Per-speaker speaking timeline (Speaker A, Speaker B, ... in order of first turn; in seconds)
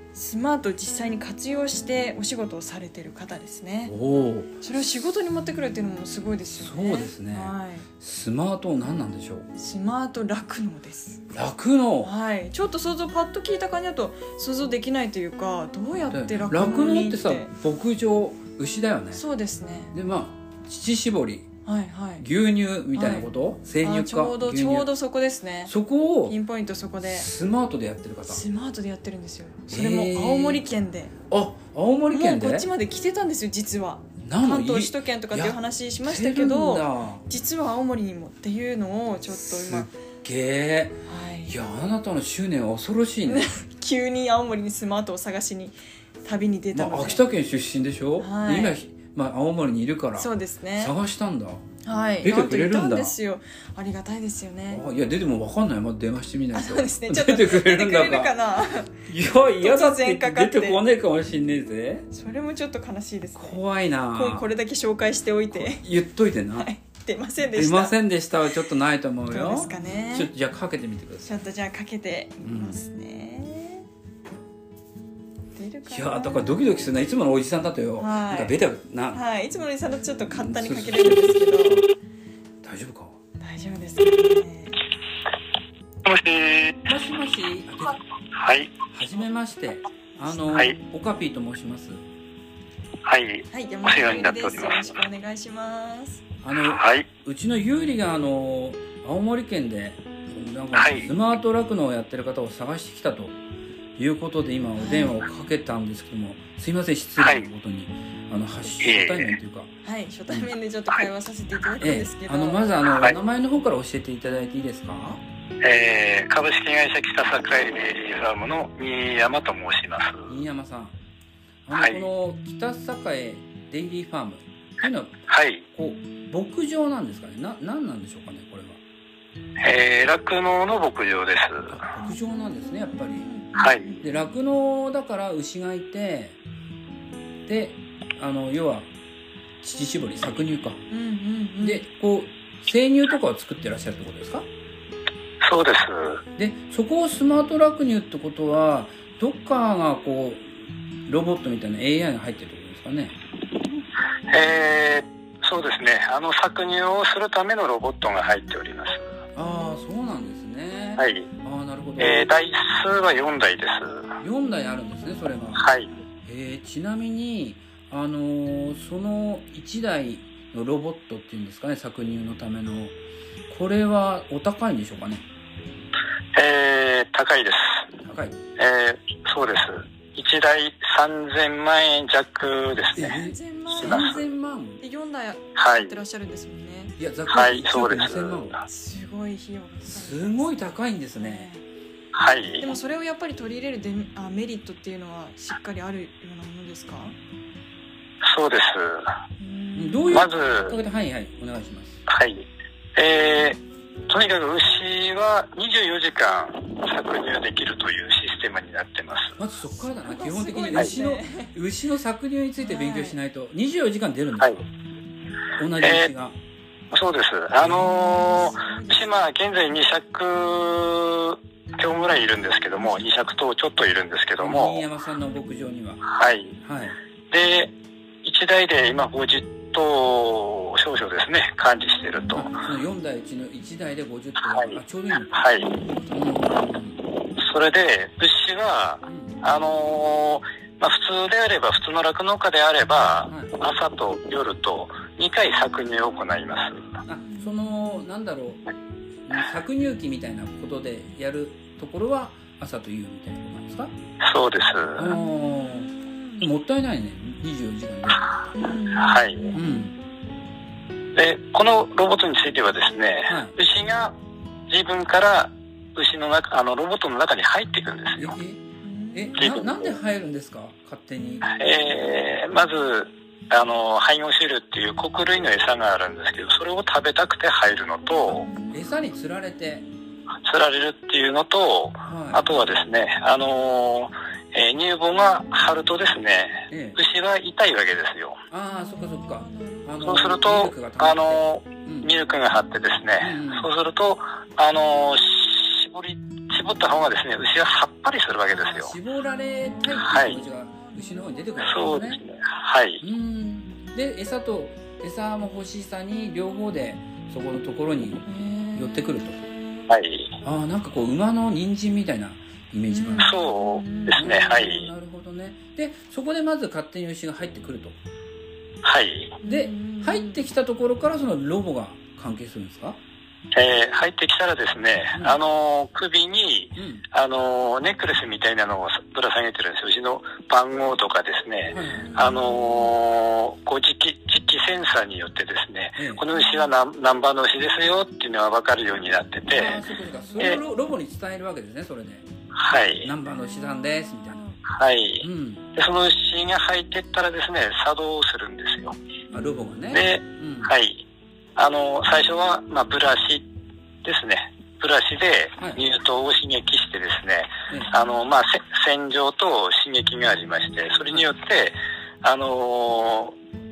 Speaker A: 0.1-4.0, 4.6-7.9, 9.6-11.3, 12.0-17.5, 19.1-19.9, 21.7-22.2, 22.9-25.7, 26.3-27.3, 28.3-31.1, 32.1-39.9, 41.1-41.5, 43.3-47.2, 48.2-48.8, 50.2-51.0, 51.8-54.8, 56.5-59.0, 59.6-60.8, 62.1-63.6, 64.1-65.8, 66.5-68.0, 69.3-70.3, 71.2-73.8, 75.6-76.6, 78.0-78.6, 79.1-81.8, 83.4-84.8, 90.2-90.5, 93.5-96.2, 104.8-105.2, 109.8-112.8, 133.2-134.1, 140.9-141.8, 183.0-184.2, 184.8-186.9, 188.6-191.6, 192.6-197.2, 199.4-200.2, 210.0-211.5, 212.6-213.2, 217.6-219.2, 235.6-236.2, 247.2-247.9, 255.1-256.5, 258.5-259.9, 268.8-269.5, 278.4-278.8, 288.8-289.9, 300.5-301.5, 308.3-309.3, 312.9-314.2, 319.4-320.4, 331.9-332.9, 336.3-336.7, 340.0-340.7, 343.4-344.6, 349.3-349.6
Speaker B: 3.9-4.7, 6.5-9.5, 11.3-12.1, 16.1-19.2, 19.9-21.5, 22.2-24.9, 25.7-26.4, 27.0-28.4, 29.7-30.6, 31.3-32.7, 34.2-37.2, 39.4-43.6, 46.7-51.6, 52.2-53.1, 54.7-58.3, 59.0-62.1, 63.4-64.5, 65.5-66.7, 67.6-71.3, 72.4-72.8, 75.9-79.2, 80.3-81.8, 82.6-83.2, 86.9-88.0, 88.9-92.0, 96.4-103.4, 104.0-109.7, 111.8-115.2, 120.3-121.0, 121.7-125.2, 125.7-128.8, 131.7-133.3, 134.0-136.4, 137.5-138.9, 139.6-140.8, 141.6-144.5, 146.4-150.6, 151.1-153.2, 159.3-162.3, 164.2-165.7, 166.2-172.9, 173.5-175.2, 178.0-178.4, 182.9-184.8, 187.0-188.6, 189.9-191.5, 199.8-202.1, 209.4-214.6, 215.6-216.4, 217.6-218.1, 224.4-226.0, 226.6-227.0, 232.3-235.5, 236.1-237.0, 239.1-239.4, 243.3-243.5, 247.1-248.6, 249.3-253.9, 255.0-258.2, 259.5-259.9, 263.3-263.6, 268.2-271.5, 278.7-279.9, 282.1-282.5, 286.7-287.0, 288.5-292.1, 293.2-293.7, 298.5-302.2, 303.0-309.4, 310.4-313.4, 314.1-318.0, 319.4-323.0, 325.1-325.4, 326.8-327.1, 331.7-332.2, 336.0-336.2, 339.5-342.2, 343.0-344.4, 345.2-345.7, 349.3-350.7, 355.6-355.8
Speaker C: 86.0-86.9, 88.4-88.8, 93.0-95.0, 96.7-97.1, 100.8-101.1, 107.2-107.5, 108.8-109.4, 115.6-120.3, 121.7-122.1, 125.3-125.6, 129.6-131.8, 133.6-133.9, 145.4-146.2, 154.3-159.1, 161.0-161.3, 162.0-164.2, 165.6-165.9, 176.4-177.9, 178.6-183.2, 183.8-184.2, 185.6-185.9, 187.3-188.6, 192.1-192.7, 198.2-199.2, 200.1-200.8, 202.1-202.4, 203.0-209.4, 215.8-216.1, 216.9-224.8, 226.1-226.6, 227.3-227.7, 228.2-232.5, 234.5-234.8, 235.3-235.7, 237.3-246.9, 254.2-255.1, 258.9-259.6, 261.1-264.2, 264.7-268.4, 269.4-270.0, 271.4-278.5, 280.4-288.4, 290.0-298.9, 300.0-300.4, 301.6-303.0, 309.9-310.4, 313.2-314.9, 318.8-319.4, 323.5-339.8, 342.6-343.1, 344.7-349.0, 349.9-351.1, 351.6-353.5, 354.0-363.4